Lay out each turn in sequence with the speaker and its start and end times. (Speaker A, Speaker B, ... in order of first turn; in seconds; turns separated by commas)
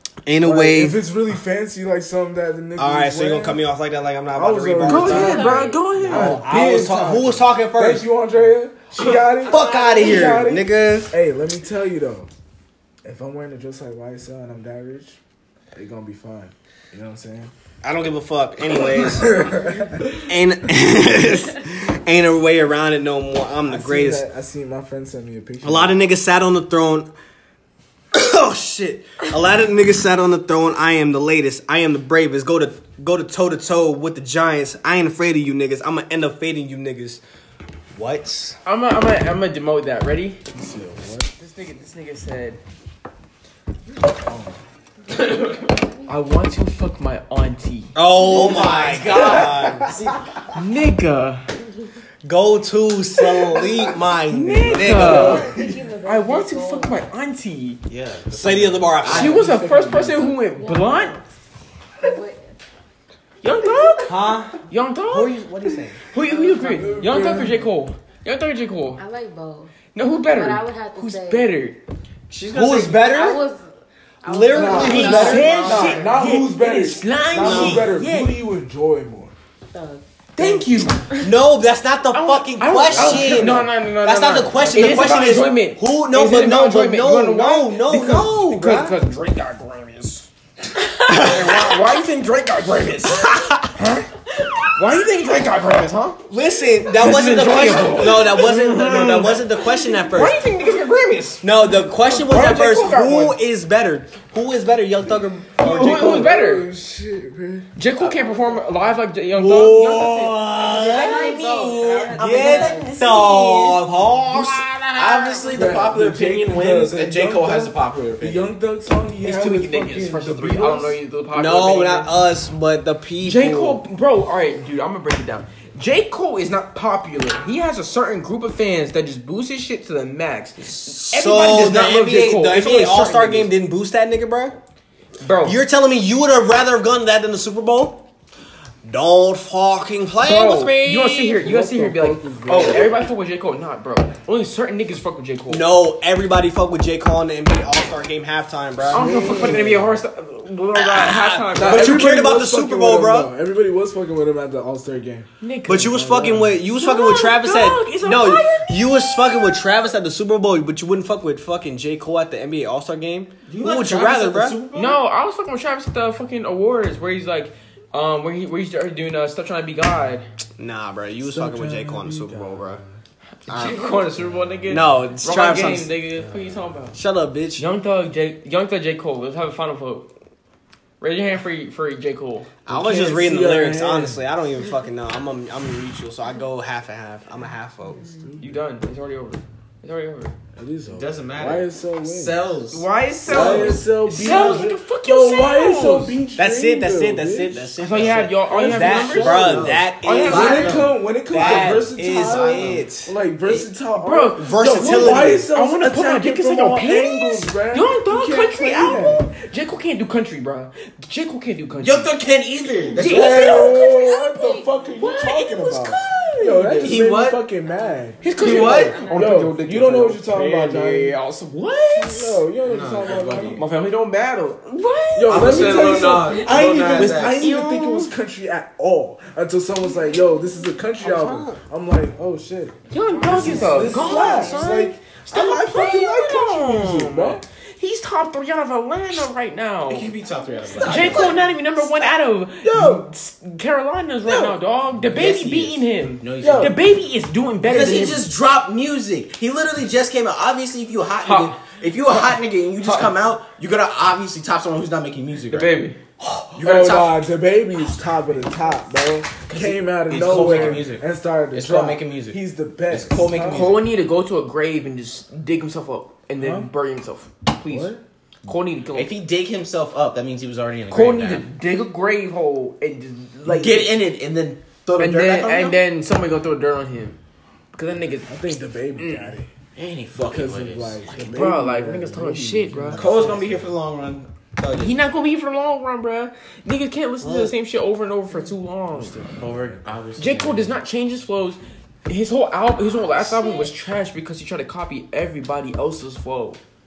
Speaker A: 0.2-1.0, Speaker B: 0.4-3.6, Speaker A: 2.8-8.1, Speaker B: 4.3-12.3, Speaker C: 4.8-6.5, Speaker D: 5.0-5.9, Speaker A: 9.3-11.1, Speaker D: 9.4-10.3, Speaker B: 13.0-15.2, Speaker B: 15.7-17.5, Speaker A: 17.8-19.5, Speaker B: 19.1-20.1, Speaker A: 20.1-24.2, Speaker B: 23.6-26.0, Speaker A: 25.6-27.1, Speaker A: 28.1-37.2, Speaker A: 37.9-38.6, Speaker C: 38.6-40.4, Speaker B: 40.5-41.3, Speaker C: 41.4-42.6, Speaker B: 44.2-44.6, Speaker D: 45.1-46.2, Speaker C: 45.2-47.9, Speaker A: 47.9-50.0, Speaker E: 48.2-50.1, Speaker D: 48.3-48.8, Speaker C: 50.5-51.5, Speaker A: 52.2-55.5, Speaker C: 54.3-55.5, Speaker B: 54.7-55.8, Speaker D: 54.8-57.1, Speaker C: 56.0-57.8, Speaker E: 57.9-59.5, Speaker A: 58.3-59.5, Speaker C: 59.0-61.1, Speaker B: 59.1-60.4, Speaker D: 60.4-61.2, Speaker D: 62.0-62.6, Speaker C: 63.4-65.4, Speaker D: 63.6-64.5, Speaker A: 64.0-66.0, Speaker C: 66.1-69.0, Speaker D: 66.2-67.2, Speaker B: 66.6-67.7, Speaker D: 69.0-71.5, Speaker C: 69.9-71.8, Speaker E: 72.3-73.0, Speaker A: 72.5-73.4, Speaker D: 72.8-73.7, Speaker D: 74.2-76.4, Speaker A: 74.2-75.9, Speaker B: 74.5-79.3, Speaker C: 74.8-78.4, Speaker A: 77.3-77.9, Speaker D: 79.7-80.0, Speaker C: 80.3-81.2, Speaker A: 81.2-89.0, Speaker C: 82.1-94.1, Speaker B: 82.9-83.7, Speaker E: 84.6-85.4, Speaker A: 91.1-91.8, Speaker A: 93.2-93.7, Speaker C: 94.7-96.2, Speaker A: 96.3-100.4, Speaker C: 96.9-103.4, Speaker A: 101.4-106.3, Speaker C: 105.6-106.7, Speaker B: 105.6-107.7, Speaker C: 107.8-115.2, Speaker D: 108.0-108.8, Speaker A: 109.3-115.5, Speaker D: 110.6-113.3, Speaker E: 114.9-118.5, Speaker B: 115.5-121.0, Speaker C: 119.2-122.1, Speaker A: 121.3-123.8, Speaker C: 123.2-133.5, Speaker A: 130.6-134.6, Speaker C: 135.2-135.6, Speaker A: 135.4-138.1, Speaker A: 138.8-141.4, Speaker C: 140.2-145.7, Speaker B: 141.4-143.1, Speaker A: 145.5-149.6, Speaker B: 148.8-150.0, Speaker C: 148.9-152.2, Speaker A: 150.8-153.3, Speaker B: 151.5-156.6, Speaker C: 155.4-155.9, Speaker A: 155.7-164.6, Speaker C: 156.7-159.7, Speaker E: 163.5-165.0, Speaker C: 164.7-170.3, Speaker A: 170.6-172.8, Speaker B: 171.2-173.0, Speaker C: 173.4-177.0, Speaker A: 173.5-174.0, Speaker B: 174.2-174.7, Speaker A: 174.7-175.9, Speaker B: 176.2-176.5, Speaker A: 176.9-177.7, Speaker C: 177.6-180.1, Speaker C: 181.0-182.5, Speaker A: 182.6-188.1, Speaker B: 182.7-184.2, Speaker B: 188.0-188.6, Speaker C: 188.4-190.3, Speaker B: 190.5-192.5, Speaker E: 190.9-194.6, Speaker C: 192.7-196.2, Speaker B: 193.2-209.3, Speaker A: 196.3-203.6, Speaker C: 197.8-200.8, Speaker E: 199.2-202.8, Speaker C: 203.9-212.1, Speaker A: 204.4-205.5, Speaker E: 211.8-213.7, Speaker D: 212.9-214.9, Speaker B: 212.9-221.2, Speaker C: 212.9-213.8, Speaker C: 215.0-217.0, Speaker E: 216.8-217.4, Speaker D: 217.7-219.3, Speaker C: 218.2-222.4, Speaker E: 218.4-219.0, Speaker B: 222.0-223.7, Speaker E: 222.6-223.6, Speaker C: 223.5-228.1, Speaker B: 225.1-237.4, Speaker E: 225.2-227.4, Speaker D: 229.8-230.8, Speaker A: 231.0-231.6, Speaker C: 232.9-240.1, Speaker D: 233.0-234.6, Speaker E: 233.4-233.9, Speaker A: 234.0-234.2, Speaker E: 239.9-241.5, Speaker B: 240.7-241.9, Speaker C: 240.8-248.3, Speaker B: 242.6-243.1, Speaker E: 245.0-246.8, Speaker B: 246.4-246.8, Speaker E: 247.6-257.2, Speaker C: 251.2-251.6, Speaker C: 252.8-253.1, Speaker C: 255.5-256.0, Speaker B: 256.5-263.8, Speaker E: 259.5-262.4, Speaker C: 260.2-260.8, Speaker E: 262.9-263.8, Speaker C: 263.5-269.1, Speaker B: 266.4-266.7, Speaker B: 267.6-268.0, Speaker E: 268.9-271.4, Speaker C: 270.9-273.9, Speaker E: 273.4-275.8, Speaker C: 275.0-277.2, Speaker C: 277.7-278.4, Speaker B: 278.3-279.5, Speaker C: 278.9-279.3, Speaker E: 279.8-281.1, Speaker B: 280.1-283.7, Speaker C: 281.1-283.3, Speaker E: 282.9-285.0, Speaker C: 284.8-289.2, Speaker A: 287.2-287.5, Speaker B: 288.9-289.9, Speaker E: 289.4-290.8, Speaker C: 290.2-296.6, Speaker D: 293.2-293.7